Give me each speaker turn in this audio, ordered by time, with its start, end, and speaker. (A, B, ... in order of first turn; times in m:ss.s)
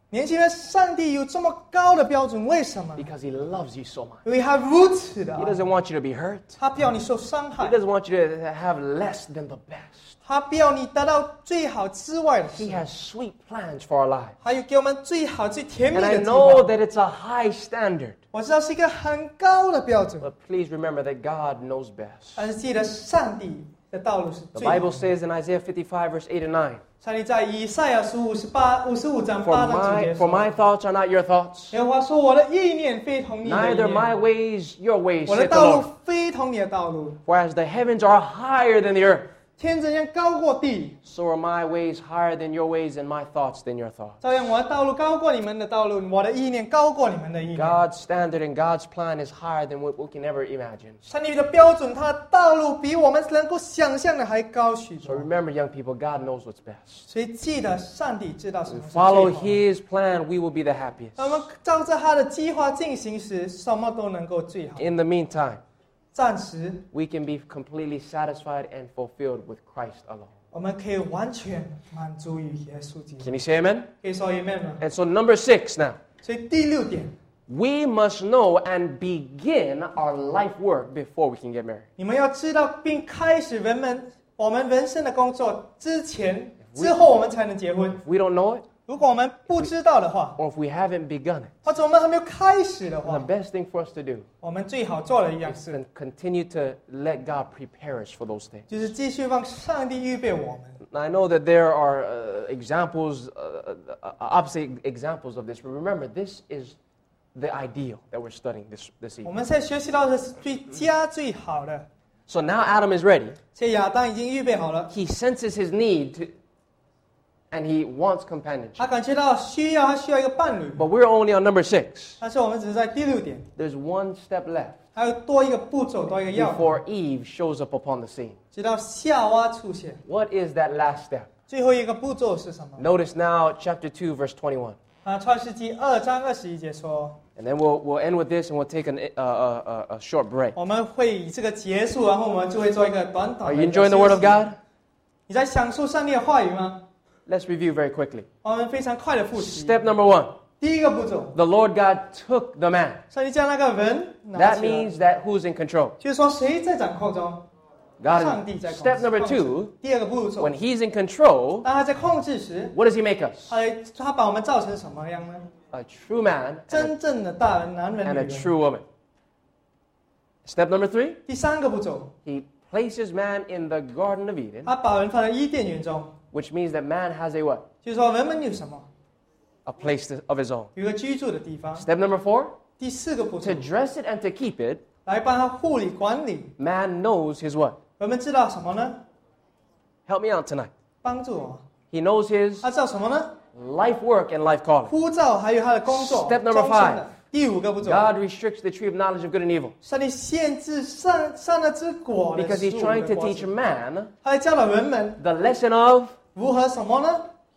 0:00.1-0:03.1 A
0:03.0-0:04.2 B
0:04.2-0:05.6 A
0:05.4-0:06.6 B
0:06.6-0:07.8 A
0:07.6-0:10.2 B
0:10.2-0:12.8 A
0:12.5-0:14.4 B
0:14.4-0:16.7 A
0:15.9-0:18.2 B
0:18.3-0:20.3 A
0:20.2-0:22.4 B
0:22.4-0:25.0 A
0:24.5-0:26.8 B
0:27.0-0:30.5 A
0:29.4-0:31.8 B
0:31.7-0:34.1 A
0:33.4-0:35.9 B
0:35.2-0:37.2 A
0:37.2-0:39.3 B
0:39.6-0:41.0 A
0:41.0-0:44.2 B
0:44.2-0:47.8 A
0:47.5-0:51.0 B
0:51.0-0:55.3 A
0:55.0-0:57.0 B
0:57.1-0:59.6 A
0:58.7-1:01.4 B
1:01.2-1:04.9 A
1:04.8-1:05.6 B
1:06.1-1:06.8 A
1:06.9-1:10.3 B
1:10.5-1:13.4 A
1:13.2-1:13.9 B
1:14.0-1:14.8 A
1:14.8-1:16.0 B
1:16.2-1:17.1 A
1:17.5-1:21.9 B
1:22.0-1:28.0 A
1:26.7-1:26.9 B
1:28.0-1:28.7 B
1:28.9-1:30.4 A
1:30.4-1:31.5 B
1:31.6-1:33.3 A
1:33.0-1:34.2 B
1:34.4-1:35.8 A
1:35.4-1:38.7 B
1:38.7-1:40.8 A
1:40.8-1:46.8 B
1:47.3-1:49.3 B
1:49.2-1:51.9 A
1:52.3-1:53.4 B
1:53.5-1:54.9 A
1:54.9-1:56.3 B
1:57.5-1:58.9 B
1:58.8-2:00.8 A
2:00.8-2:02.2 B
2:02.2-2:03.5 A
2:03.6-2:04.8 B
2:04.9-2:06.8 A
2:06.3-2:08.4 B
2:08.5-2:10.0 A
2:10.0-2:11.3 B
2:11.5-2:12.8 A
2:12.8-2:14.8 B
2:15.0-2:17.2 A
2:17.4-2:20.6 B
2:20.6-2:24.4 A
2:23.4-2:24.6 B
2:25.3-2:26.8 A
2:27.3-2:28.3 B
2:28.4-2:29.8 A
2:29.3-2:30.4 B
2:30.6-2:31.4 A
2:31.3-2:33.0 B
2:33.1-2:34.9 A
2:34.3-2:36.0 B
2:36.0-2:37.4 A
2:38.0-2:39.7 B
2:38.2-2:40.6 A
2:40.4-2:41.7 B
2:41.6-2:42.8 A
2:42.7-2:43.5 B
2:43.5-2:45.5 A
2:45.7-2:46.9 B
2:46.7-2:48.5 A
2:48.0-2:48.8 B
2:50.4-2:51.2 B
2:51.3-2:52.1 A
2:52.2-2:54.7 B
2:54.6-2:56.2 A
2:56.3-2:57.7 B
2:57.8-2:58.9 A
2:59.6-3:00.7 B
3:00.7-3:01.9 A
3:01.8-3:02.6 B
3:02.8-3:03.7 A
3:03.4-3:04.8 B
3:05.0-3:06.5 A
3:06.6-3:07.8 B
3:08.0-3:09.0 A
3:10.1-3:10.7 B
3:11.0-3:11.6 A
3:11.9-3:12.7 B
3:12.6-3:13.4 A
3:13.5-3:14.9 B
3:14.9-3:18.0 A
3:15.9-3:17.1 B
3:17.8-3:19.7 B
3:19.8-3:23.5 A
3:22.4-3:24.1 B
3:24.2-3:25.2 A
3:25.2-3:26.2 B
3:26.3-3:27.3 A